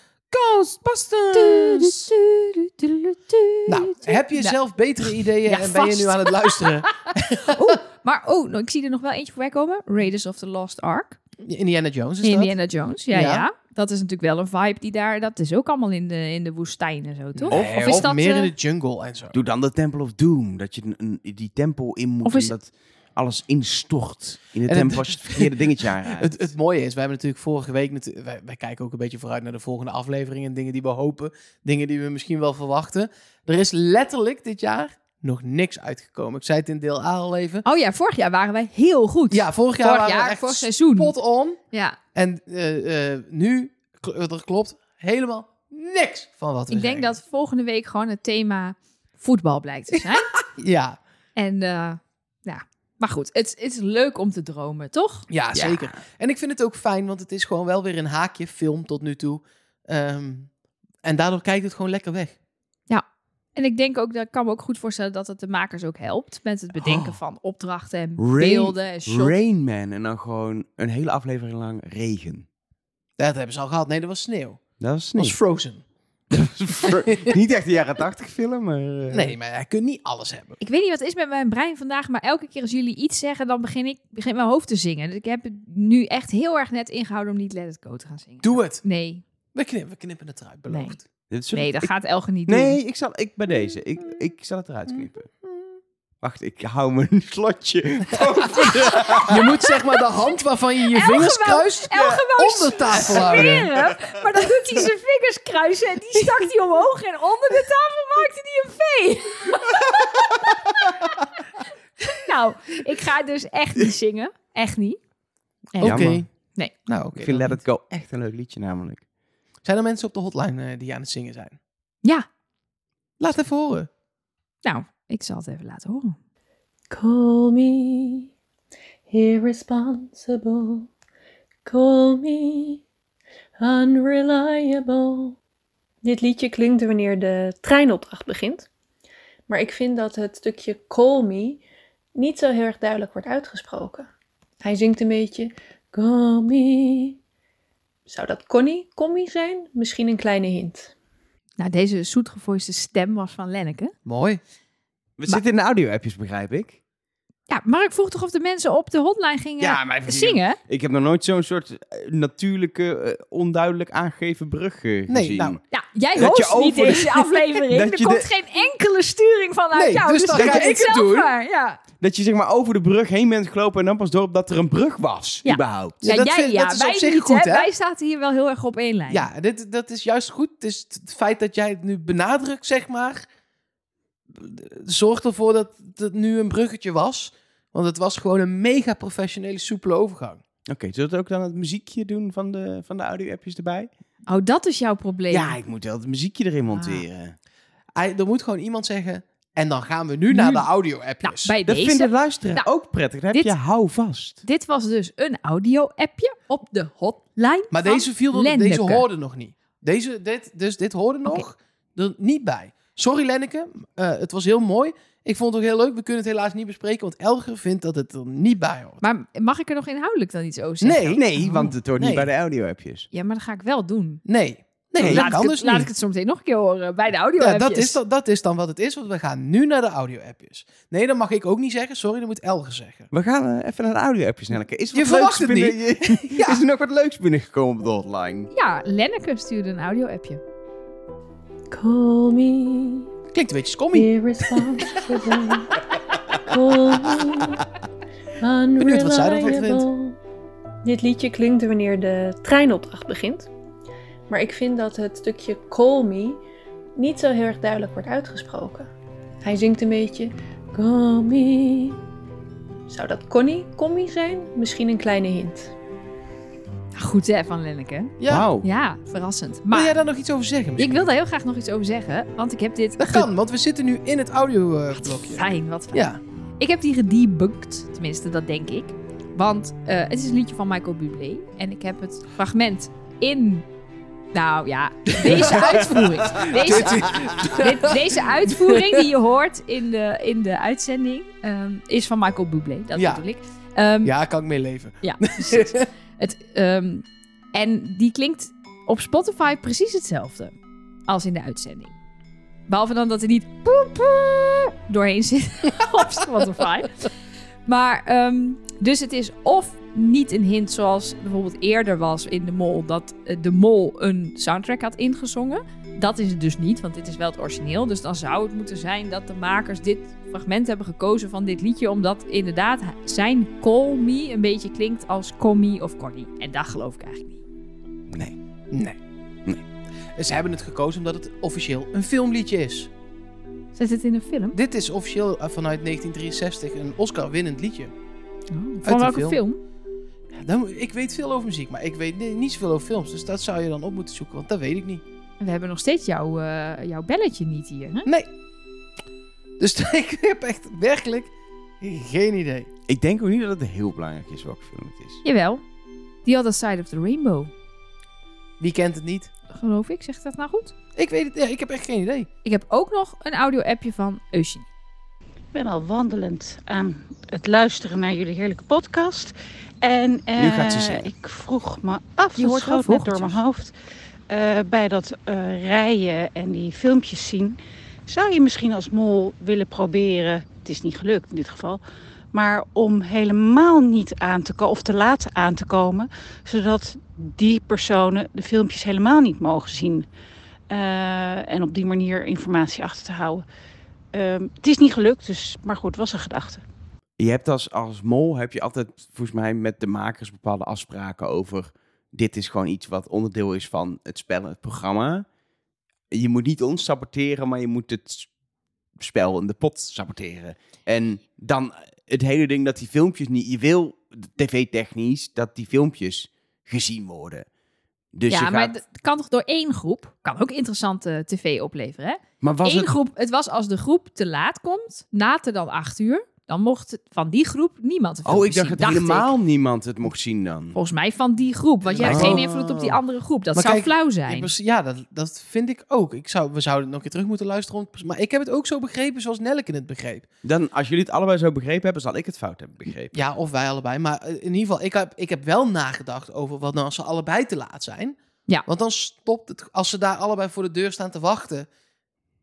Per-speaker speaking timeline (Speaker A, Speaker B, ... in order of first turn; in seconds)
Speaker A: 0.3-1.9, 3.7-7.8, 11.4-12.6, 13.1-13.5, 17.4-19.4, 24.7-37.6, 39.3-41.6, 42.1-47.2, 49.9-51.0, 55.3-60.5, 61.0-62.4, 73.2-74.6, 75.2-75.8, 76.8-77.4, 79.1-80.6, 88.4-88.8, 89.5-91.1, 94.9-95.7, 99.2-103.7, 115.8-116.3, 116.9-117.6, 119.6-121.6, 123.2-123.9, 154.1-154.4, 165.1-165.6, 169.7-171.3, 176.0-177.7, 179.1-183.3, 184.3-190.4, 197.9-201.5, 207.7-219.0, 220.8-221.2, 222.0-222.3, 224.3-225.9, 227.4-233.1, 234.9-236.7, 243.3-245.3, 248.8-249.9, 268.2-268.5, 269.7-271.1, 273.0-276.2, 285.2-289.0, 292.9-293.2, 294.0-295.9, 328.7-329.0, 330.2-332.9, 334.5-337.9, 338.8-339.4, 340.4-345.0, 349.6-352.7, 358.6-359.3, 361.0-362.3, 431.8-432.9, 433.6-440.3, 443.1-451.7
Speaker B: 1.3-11.2, 12.2-18.5, 22.2-22.5, 37.6-41.1, 41.7-42.0, 46.7-50.3, 51.4-55.3, 63.6-69.4, 80.6-89.2, 90.7-91.0, 91.5-92.8, 98.5-100.0, 100.9-111.1, 111.6-115.0, 115.7-116.0, 124.6-126.2, 151.6-153.9, 157.5-160.6, 165.7-171.8, 175.4-179.3, 194.3-195.6, 196.7-197.0, 200.3-200.7, 201.2-202.7, 204.4-209.1, 219.0-221.7, 223.1-224.2, 225.0-228.0, 238.5-240.4, 267.0-270.0, 270.8-273.3, 275.0-276.1, 276.6-283.7, 284.3-294.1, 295.0-300.6, 301.1-301.9, 302.7-307.1, 307.7-327.4, 333.7-334.6, 338.5-339.6, 345.4-348.1, 355.2-355.6, 356.2-357.5, 359.5-360.7, 362.4-364.7, 372.4-373.3, 418.3-429.3, 430.7-434.5
Speaker C: 17.5-18.1, 19.3-26.5, 55.6-55.8, 66.9-67.1, 68.2-72.5, 74.8-75.4, 76.3-79.3, 91.3-91.9, 92.5-95.3, 96.2-99.4, 103.0-103.6, 115.8-116.2, 117.2-119.0, 155.2-156.8, 159.6-165.6, 166.2-168.3, 170.3-170.7, 172.0-176.0, 190.7-193.9, 195.3-197.3, 201.7-204.4, 221.2-223.1, 225.0-225.3, 233.1-238.5, 268.3-268.7, 287.1-287.5, 328.1-328.4, 352.9-355.2, 370.4-371.1, 397.2-405.3, 406.1-408.3, 409.0-417.5, 418.1-418.7, 422.4-422.9, 428.2-430.8, 432.0-432.9, 440.4-443.2
Speaker D: 126.9-128.3, 129.1-130.9, 131.7-132.8, 133.6-135.4, 136.0-138.7, 139.5-141.6, 142.2-144.1, 144.6-147.2, 148.1-150.9, 241.7-243.1, 243.9-245.8, 246.5-247.6, 248.4-250.2, 250.8-253.5, 254.3-256.4, 257.0-258.9, 259.4-262.0, 262.9-265.7
Speaker E: 365.5-373.7, 374.3-381.8, 382.3-390.1, 390.7-393.4, 394.1-396.6